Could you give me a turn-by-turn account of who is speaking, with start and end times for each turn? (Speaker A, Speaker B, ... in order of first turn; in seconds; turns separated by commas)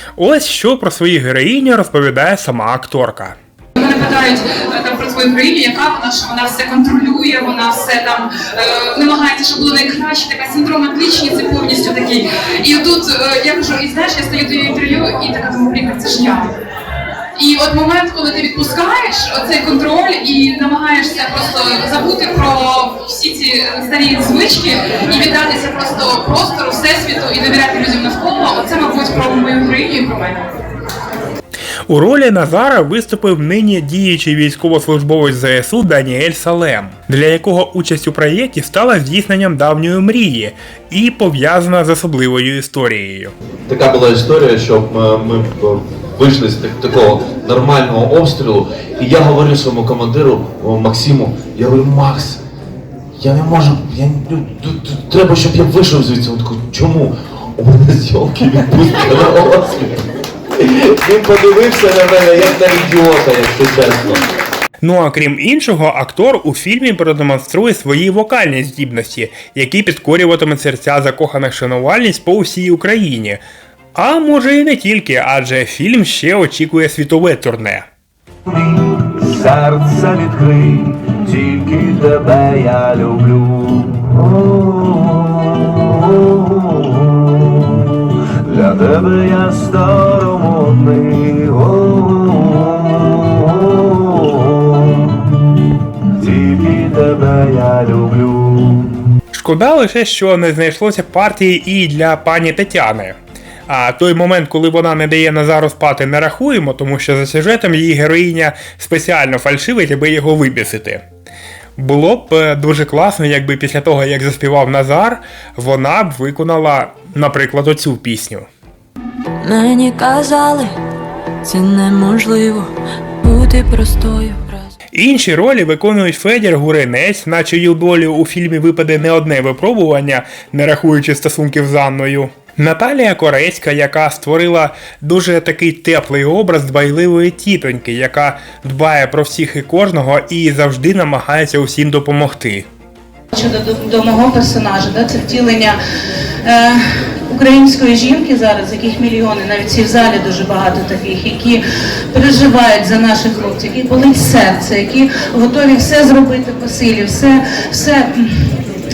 Speaker A: 0.2-3.4, Speaker B: 3.8-16.5, Speaker B: 17.4-30.4, Speaker A: 31.9-43.3, Speaker C: 43.7-52.4, Speaker C: 53.2-60.0, Speaker C: 60.6-64.2, Speaker A: 64.8-73.4, Speaker A: 73.9-77.8, Speaker D: 78.5-95.3, Speaker D: 96.2-99.0, Speaker A: 99.3-103.2, Speaker A: 103.7-111.0, Speaker A: 111.8-118.5, Speaker E: 119.4-120.8, Speaker E: 121.4-124.7, Speaker A: 125.0-142.7, Speaker F: 143.3-145.8, Speaker F: 146.4-151.6, Speaker F: 152.1-158.6